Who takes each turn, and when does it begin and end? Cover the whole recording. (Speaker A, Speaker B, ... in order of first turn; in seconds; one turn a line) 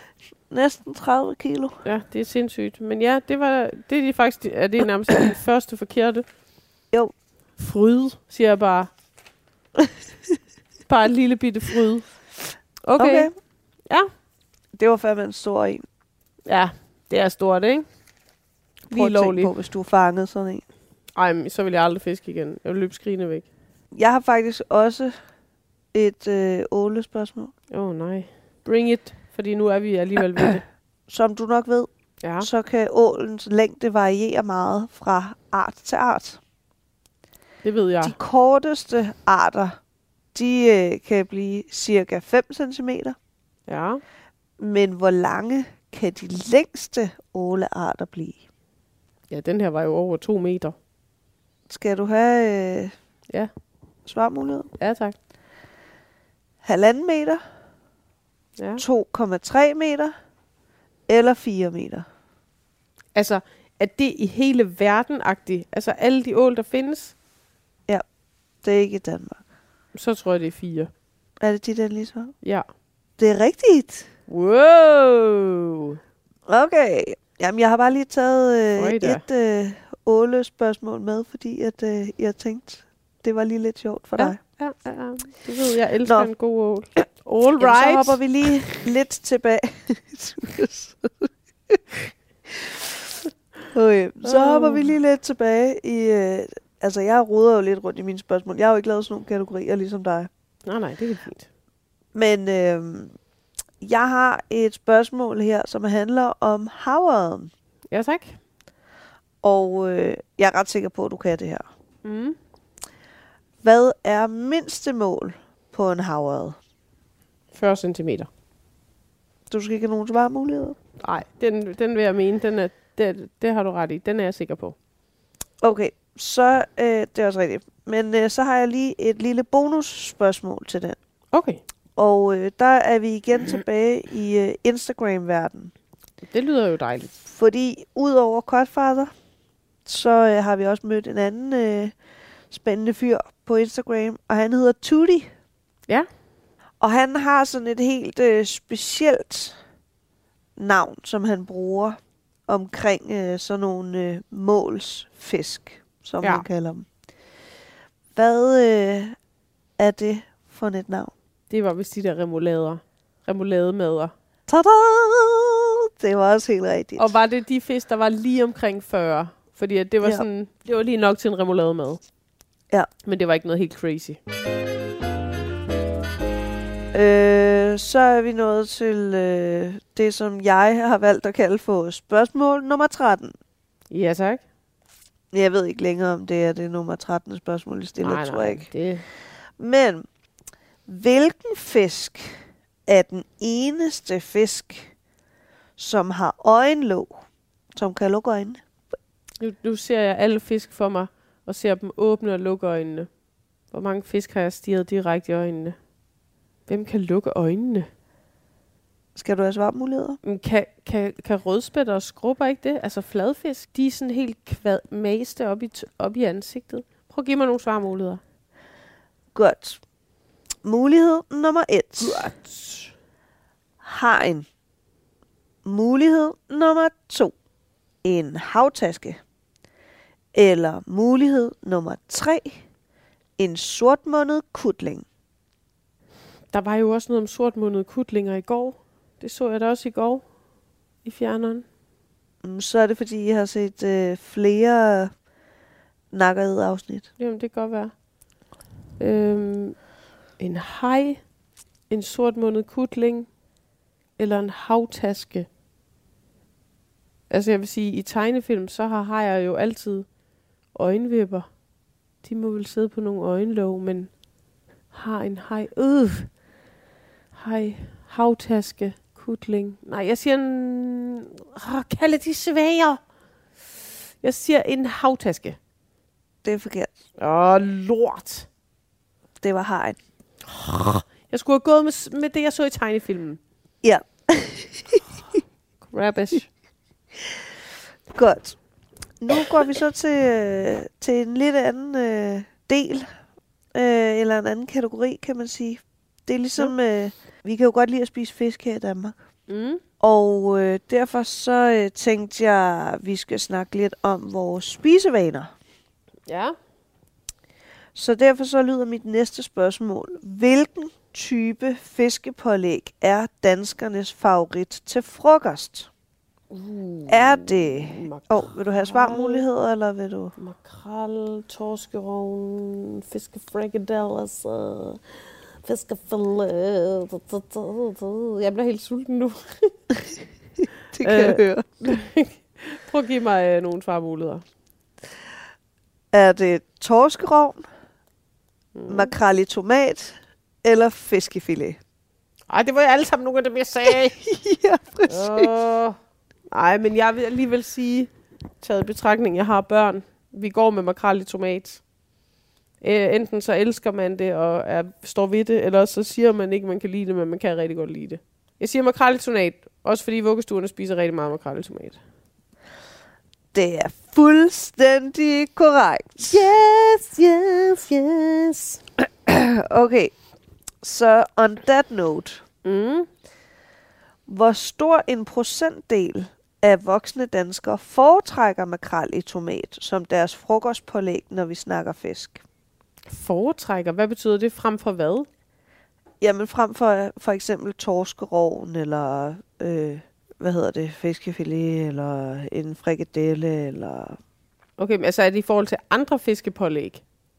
Speaker A: 0.5-1.8
Speaker B: 1.8-6.2
Speaker B: 7.6-8.9
Speaker B: 10.9-12.1
Speaker B: 12.8-13.3
Speaker A: 13.0-13.3
Speaker A: 14.7-15.8
Speaker B: 16.5-17.9
Speaker B: 18.9-19.5
Speaker A: 18.9-20.6
Speaker B: 21.1-23.5
Speaker A: 23.9-25.1
Speaker A: 25.9-27.5
Speaker B: 27.7-30.6
Speaker A: 31.1-31.9
Speaker B: 32.2-32.5
Speaker A: 32.4-36.4
Speaker B: 37.6-38.1
Speaker A: 38.0-39.8
Speaker A: 40.3-43.1
Speaker B: 43.7-44.0
Speaker A: 44.6-48.4
Speaker B: 49.3-50.7
Speaker A: 51.7-52.9
Speaker A: 54.0-54.7
Speaker B: 54.8-55.1
Speaker A: 56.6-57.4
Speaker B: 58.6-58.8
Speaker A: 58.8-60.1
Speaker A: 61.1-62.0
Speaker B: 63.1-67.1
Speaker A: 68.6-69.4
Speaker B: 69.9-70.9
Speaker A: 71.4-72.3
Speaker A: 73.2-74.1
Speaker B: 74.3-76.0
Speaker A: 76.5-84.4
Speaker B: 78.8-79.2
Speaker B: 84.2-88.2
Speaker A: 86.0-86.3
Speaker A: 87.6-91.8
Speaker A: 92.5-93.1
Speaker A: 93.7-100.3
Speaker B: 94.2-94.9
Speaker B: 100.7-101.5
Speaker A: 102.1-103.1
Speaker A: 103.8-107.5
Speaker B: 107.9-108.4
Speaker A: 109.4-111.6
Speaker B: 112.0-112.4
Speaker A: 113.6-116.6
Speaker B: 117.5-118.3
Speaker A: 119.5-120.8
Speaker B: 121.0-124.8
Speaker A: 125.6-131.0
Speaker B: 131.3-131.6
Speaker A: 131.9-135.7
Speaker B: 136.3-137.1
Speaker A: 137.2-139.1
Speaker A: 139.8-141.9
Speaker A: 142.5-145.3
Speaker A: 146.8-149.6
Speaker A: 150.6-156.9
Speaker B: 156.2-156.4
Speaker A: 158.1-159.2
Speaker A: 159.8-161.1
Speaker B: 161.5-164.1
Speaker A: 164.5-167.2
Speaker B: 167.0-172.0
Speaker B: 173.0-174.2
Speaker A: 176.9-183.3
Speaker B: 183.9-184.4
Speaker A: 185.3-188.7
Speaker B: 188.0-189.1
Speaker A: 189.6-190.0
Speaker A: 190.9-194.9
Speaker A: 195.8-197.2
Speaker A: 197.8-198.6
Speaker B: 199.4-203.1
Speaker B: 203.7-205.8
Speaker B: 206.7-207.9
Speaker A: 209.1-210.2
Speaker B: 210.2-218.2
Speaker A: 219.3-219.8
Speaker A: 220.6-222.3
Speaker B: 222.0-222.9
Speaker A: 223.8-224.5
Speaker A: 225.6-227.3
Speaker A: 228.0-229.2
Speaker A: 230.3-232.6
Speaker A: 233.4-235.0
Speaker B: 236.5-240.2
Speaker B: 241.0-241.6
Speaker A: 242.4-245.1
Speaker A: 246.1-247.1
Speaker B: 247.2-247.9
Speaker B: 249.0-249.8
Speaker B: 250.4-251.2
Speaker B: 251.9-253.3
Speaker B: 254.2-255.5
Speaker B: 257.3-260.1
Speaker B: 260.7-261.5
Speaker B: 262.2-264.1
Speaker B: 264.9-266.3
Speaker B: 267.3-273.0
Speaker B: 274.2-275.6
Speaker A: 276.4-276.9
Speaker B: 277.2-278.5
Speaker A: 279.4-280.0
Speaker B: 280.5-283.4
Speaker A: 283.8-285.0
Speaker B: 285.8-286.5
Speaker A: 288.1-288.6
Speaker A: 289.2-293.1
Speaker A: 293.7-299.2
Speaker B: 299.5-299.8
Speaker A: 300.0-305.5
Speaker B: 306.3-306.6
Speaker A: 307.9-315.9
Speaker B: 316.5-319.4
Speaker A: 317.1-320.4
Speaker B: 320.4-325.0
Speaker B: 325.6-329.7
Speaker A: 330.9-331.6
Speaker B: 331.0-334.4
Speaker A: 336.1-337.6
Speaker B: 338.7-339.1
Speaker A: 338.9-341.8
Speaker B: 342.5-344.2
Speaker A: 344.2-345.5
Speaker B: 345.1-346.0
Speaker B: 346.5-351.8
Speaker B: 352.8-362.0
Speaker A: 363.5-366.5
Speaker B: 366.3-368.8
Speaker A: 369.0-370.1
Speaker A: 370.8-372.4
Speaker B: 372.6-373.1
Speaker A: 374.3-382.4
Speaker B: 383.1-385.3
Speaker A: 386.2-394.2
Speaker B: 394.8-397.0